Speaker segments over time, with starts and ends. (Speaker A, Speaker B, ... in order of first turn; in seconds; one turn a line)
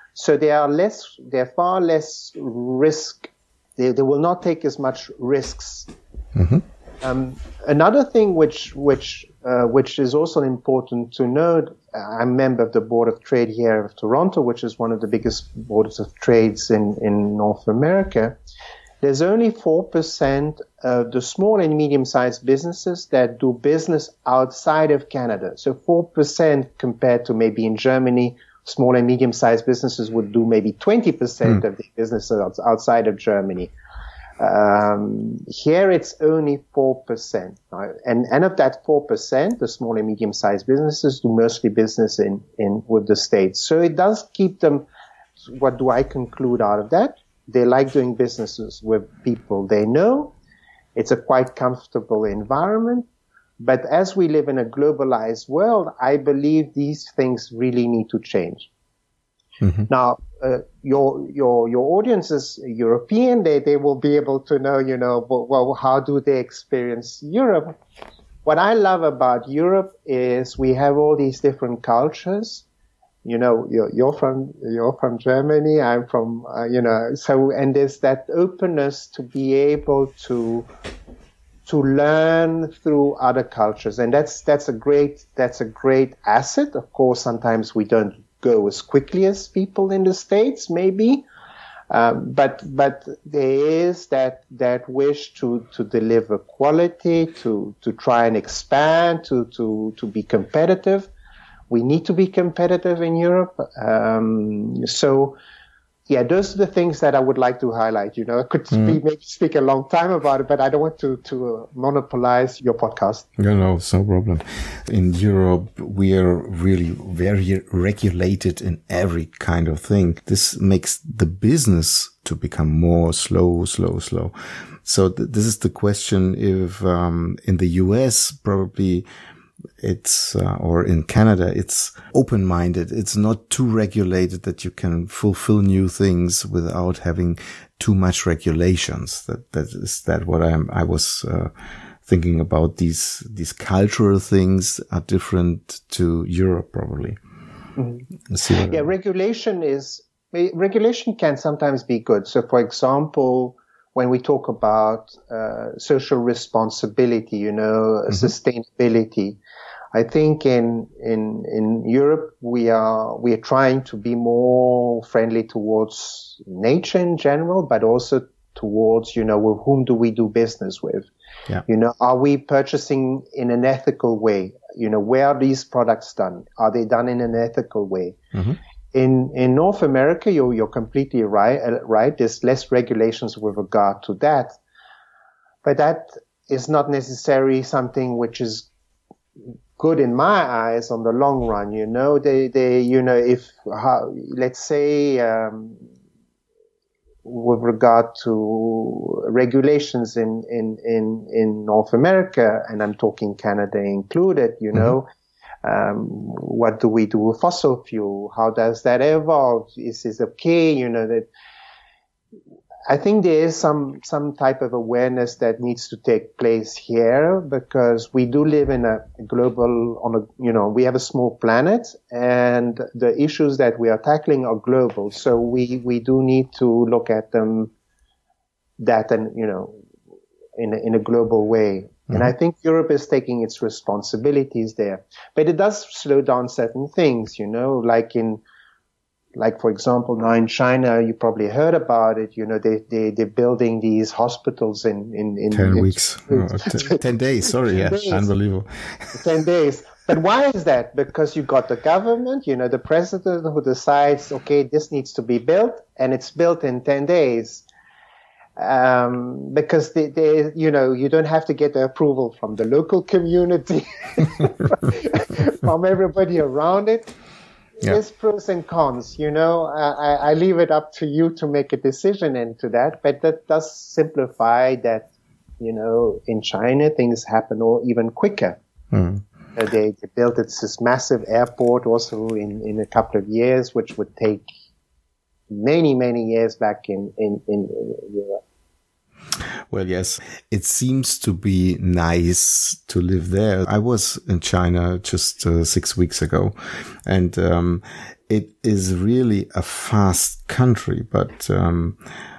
Speaker A: 0.1-5.9
Speaker B: 6.3-6.6
Speaker A: 7.0-18.4
Speaker A: 19.0-33.7
Speaker A: 34.4-44.9
Speaker A: 45.5-50.4
Speaker A: 51.0-53.1
Speaker A: 53.6-58.7
Speaker A: 59.9-67.8
Speaker A: 68.5-72.7
Speaker A: 73.2-80.7
Speaker A: 81.7-91.2
Speaker A: 91.9-101.1
Speaker A: 101.7-105.4
Speaker A: 106.1-113.3
Speaker B: 108.7-109.0
Speaker B: 113.4-124.3
Speaker B: 124.8-129.1
Speaker B: 129.8-141.5
Speaker B: 142.1-147.2
Speaker A: 147.8-148.1
Speaker B: 148.3-148.8
Speaker A: 148.7-159.4
Speaker A: 159.9-171.1
Speaker A: 171.7-178.2
Speaker A: 178.9-184.6
Speaker A: 185.6-188.7
Speaker A: 189.8-195.8
Speaker A: 197.3-205.1
Speaker A: 205.6-211.3
Speaker A: 212.9-227.7
Speaker A: 228.8-229.8
Speaker A: 230.6-238.4
Speaker A: 239.4-247.0
Speaker B: 245.5-249.2
Speaker A: 247.7-248.2
Speaker A: 249.2-257.6
Speaker A: 258.6-267.1
Speaker A: 267.8-278.6
Speaker B: 278.9-279.2
Speaker A: 279.6-284.5
Speaker A: 285.5-288.4
Speaker B: 289.7-296.5
Speaker B: 297.1-302.0